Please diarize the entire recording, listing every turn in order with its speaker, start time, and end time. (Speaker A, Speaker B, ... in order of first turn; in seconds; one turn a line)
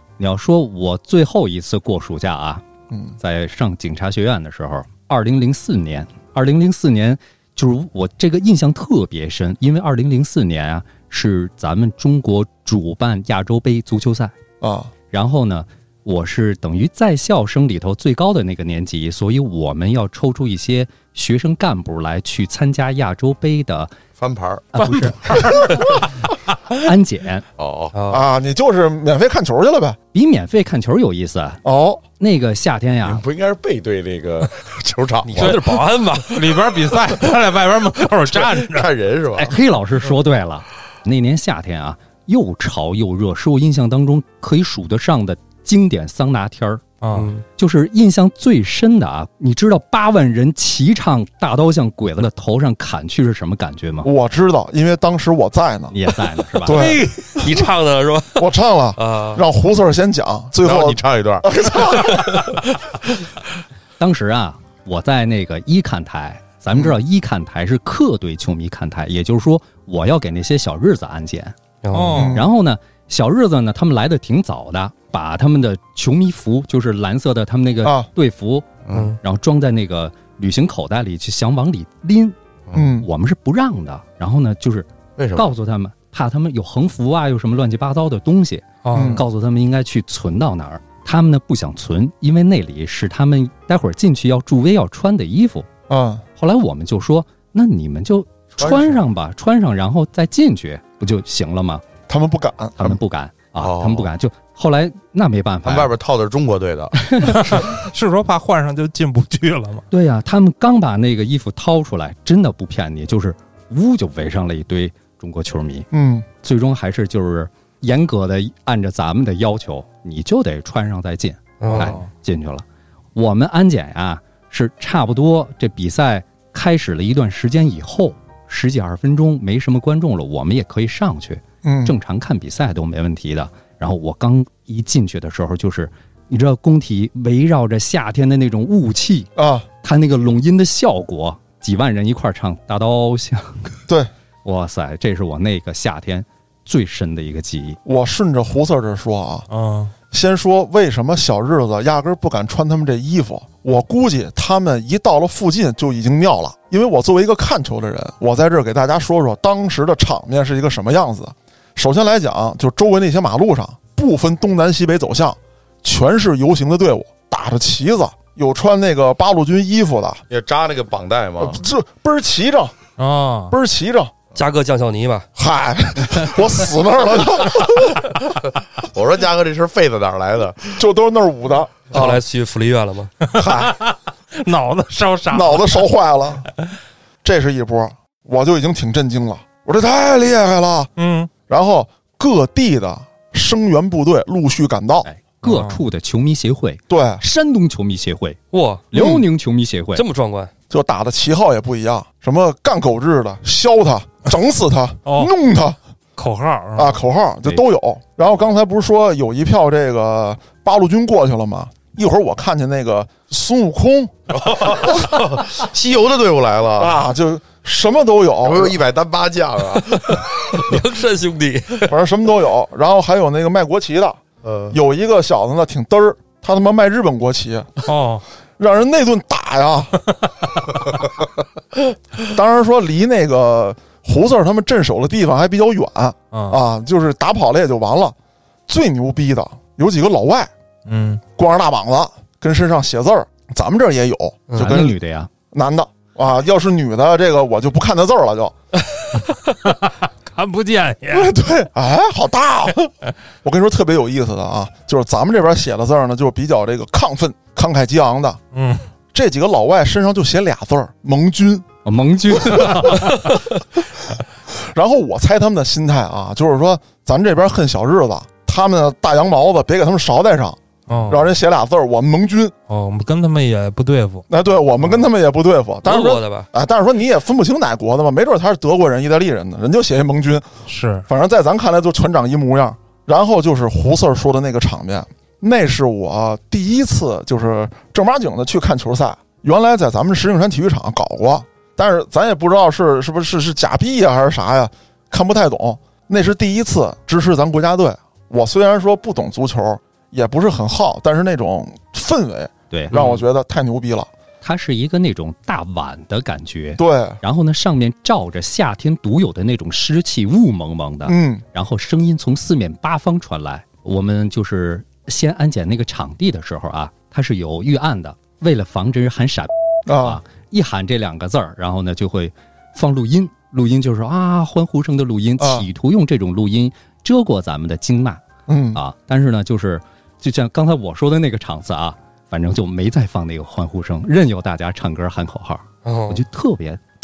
Speaker A: 0.2-2.6
Speaker A: 3.2-14.4
Speaker B: 14.6-14.9
Speaker A: 15.1-23.9
Speaker C: 24.2-25.1
Speaker A: 24.7-25.9
Speaker D: 25.2-25.8
Speaker A: 26.7-27.4
Speaker C: 27.6-27.9
Speaker E: 27.9-28.2
Speaker B: 28.1-30.0
Speaker A: 30.1-31.6
Speaker B: 31.6-32.0
Speaker A: 32.2-33.2
Speaker C: 33.0-35.6
Speaker E: 35.2-36.4
Speaker D: 36.3-38.9
Speaker C: 38.6-39.5
Speaker A: 39.4-46.9
Speaker D: 47.0-47.3
Speaker E: 47.1-47.4
Speaker A: 47.5-54.1
Speaker B: 54.0-56.0
Speaker A: 55.9-56.8
Speaker B: 56.6-57.4
Speaker E: 56.7-59.4
Speaker B: 58.4-62.4
Speaker C: 60.6-61.5
Speaker A: 64.0-71.5
Speaker B: 66.7-67.0
Speaker E: 71.8-72.3
Speaker D: 71.9-72.4
Speaker B: 72.1-72.5
Speaker A: 72.2-78.7
Speaker C: 78.9-79.1
Speaker E: 78.9-79.2
Speaker A: 79.2-82.4
Speaker B: 82.7-83.1
Speaker A: 83.0-95.7
Speaker C: 85.2-85.5
Speaker D: 88.8-89.2
Speaker B: 88.9-89.2
Speaker B: 95.9-96.2
Speaker A: 96.4-101.8
Speaker C: 98.6-99.0
Speaker B: 102.1-102.8
Speaker A: 102.8-105.9
Speaker C: 103.6-104.1
Speaker C: 105.6-107.7
Speaker A: 107.0-107.4
Speaker D: 107.2-109.8
Speaker A: 109.9-115.9
Speaker B: 115.9-116.2
Speaker A: 116.4-122.6
Speaker E: 121.6-122.0
Speaker D: 121.8-122.0
Speaker A: 123.1-139.3
Speaker B: 131.6-131.9
Speaker B: 139.3-139.7
Speaker A: 139.8-143.8
Speaker A: 144.4-147.8
Speaker B: 147.8-149.5
Speaker D: 149.5-149.9
Speaker B: 150.1-170.2
Speaker C: 170.3-171.6
Speaker B: 171.4-172.8
Speaker D: 173.0-173.5
Speaker B: 173.5-174.1
Speaker E: 174.3-175.2
Speaker B: 175.3-178.1
Speaker C: 178.8-180.8
Speaker B: 180.8-182.2
Speaker E: 181.9-183.1
Speaker D: 183.3-185.8
Speaker B: 183.4-183.7
Speaker B: 185.3-186.5
Speaker B: 187.2-190.9
Speaker D: 190.9-191.3
Speaker B: 191.4-195.1
Speaker A: 195.0-198.4
Speaker D: 195.4-195.8
Speaker B: 196.9-197.2
Speaker E: 198.5-198.8
Speaker A: 198.9-200.0
Speaker B: 198.9-199.2
Speaker E: 199.9-200.5
Speaker B: 200.7-205.8
Speaker D: 205.1-205.3
Speaker D: 206.2-207.0
Speaker B: 206.8-214.1
Speaker C: 214.3-217.0
Speaker B: 216.8-218.8
Speaker C: 218.4-220.8
Speaker E: 219.9-221.9
Speaker B: 221.9-227.8
Speaker C: 224.4-224.8
Speaker D: 227.8-228.2
Speaker B: 228.6-230.0
Speaker B: 232.2-238.2
Speaker D: 236.3-236.6
Speaker B: 238.7-240.5
Speaker D: 240.8-241.2
Speaker B: 241.3-245.0
Speaker A: 244.5-245.3
Speaker B: 245.5-248.5
Speaker D: 249.1-251.3
Speaker B: 251.1-258.4
Speaker D: 258.5-258.8
Speaker B: 259.1-261.6
Speaker A: 261.8-263.2
Speaker B: 264.5-272.5
Speaker D: 270.9-271.3
Speaker D: 272.7-274.3
Speaker B: 274.3-280.5
Speaker E: 275.8-276.5
Speaker D: 280.7-281.1
Speaker B: 281.1-304.1
Speaker A: 302.7-303.0
Speaker A: 304.4-328.2
Speaker B: 306.8-307.2
Speaker B: 311.1-311.4
Speaker B: 319.9-320.2
Speaker B: 325.4-325.7
Speaker B: 328.5-328.8
Speaker A: 328.7-336.8
Speaker E: 335.8-336.2